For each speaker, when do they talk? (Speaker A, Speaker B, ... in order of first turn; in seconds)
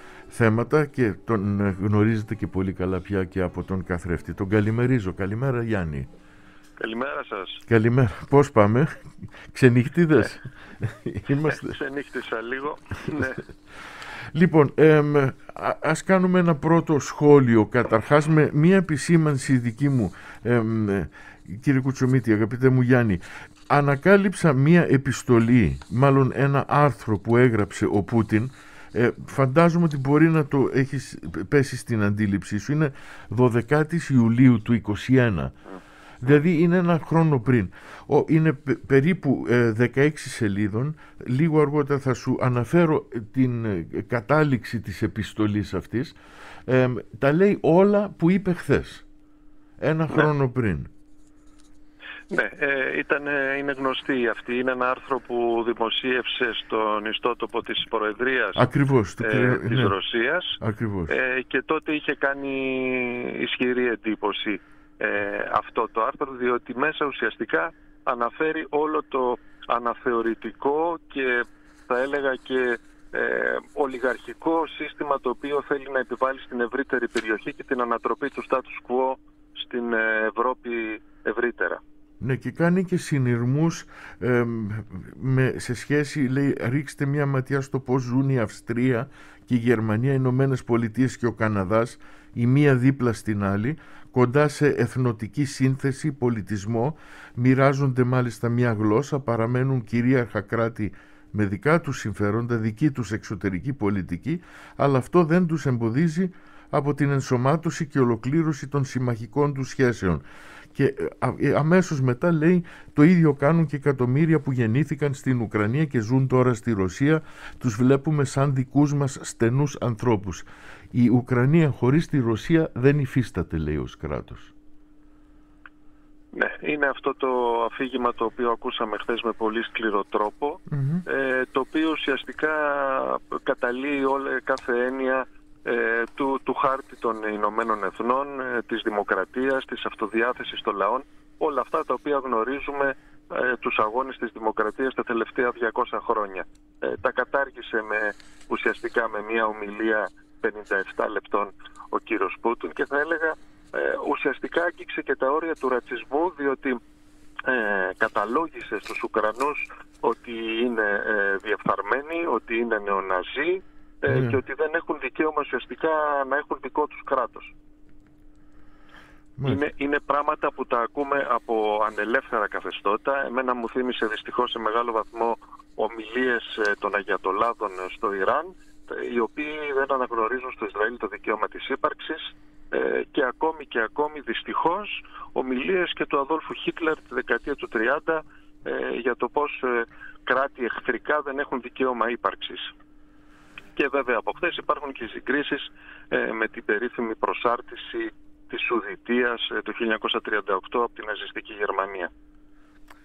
Speaker A: 0.3-6.1, 7.7-11.7, 14.3-35.5, 36.2-46.2, 46.7-49.0, 49.8-50.9, 58.6-59.9, 60.6-61.1, 82.2-124.5, 130.7-131.0, 164.1-164.4, 169.4-169.6
Speaker B: 6.8-7.7, 11.4-13.4, 52.3-58.7, 59.2-81.8, 126.3-156.8, 157.5-167.5, 169.4-192.7, 193.8-202.1